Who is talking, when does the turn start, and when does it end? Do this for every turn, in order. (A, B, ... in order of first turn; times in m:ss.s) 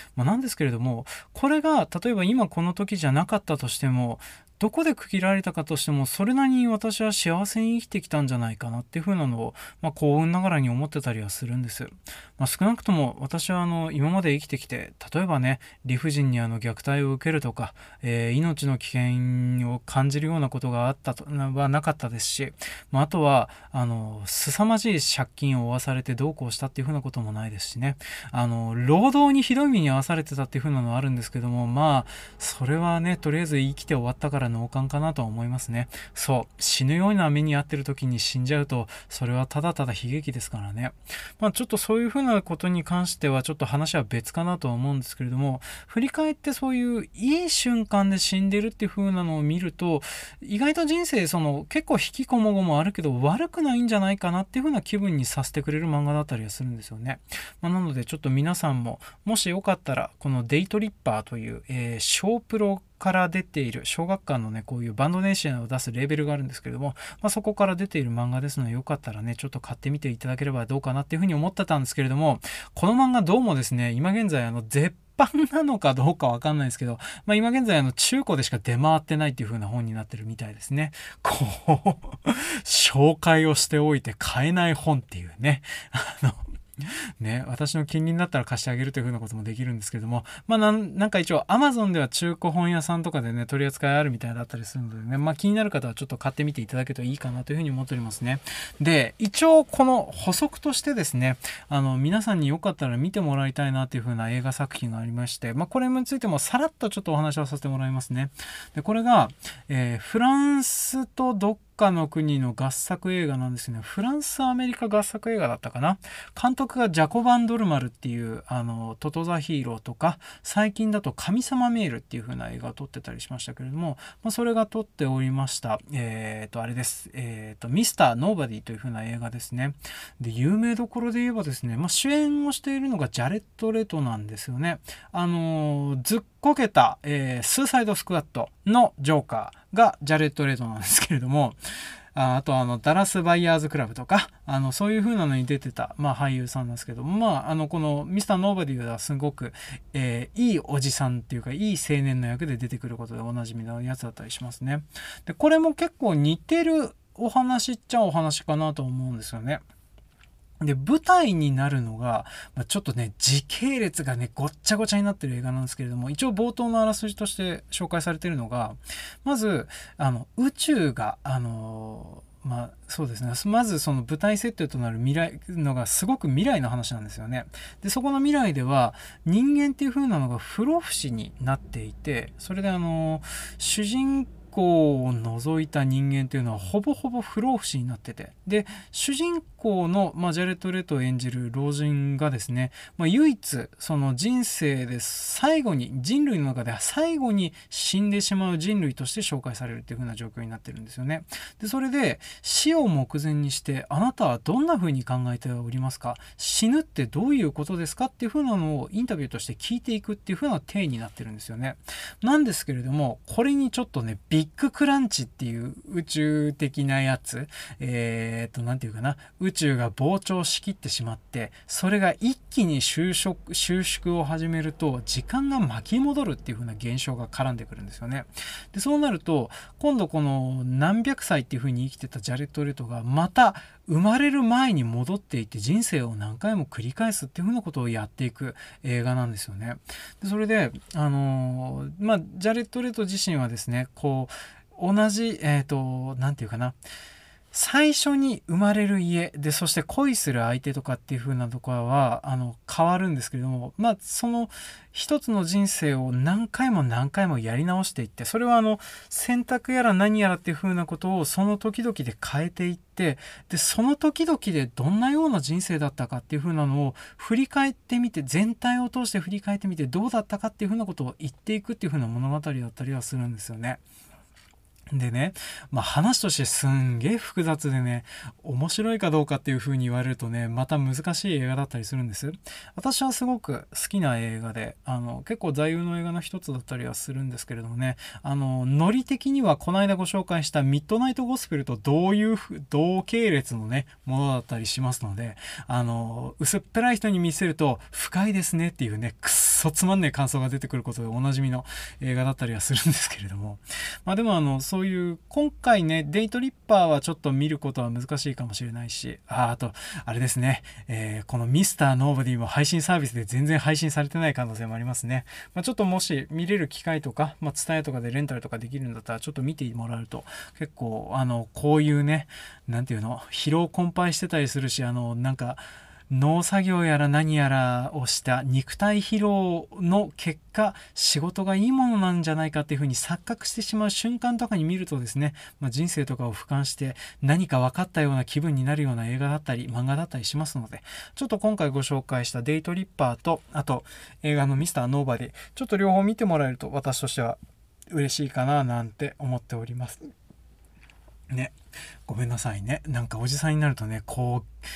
0:00.2-2:21.6 A
2:22.1-2:39.6 A
2:40.6-4:06.8 A
4:07.5-4:33.8 A
4:34.9-5:50.1 A
5:51.3-5:51.6 A
5:52.1-5:54.5 A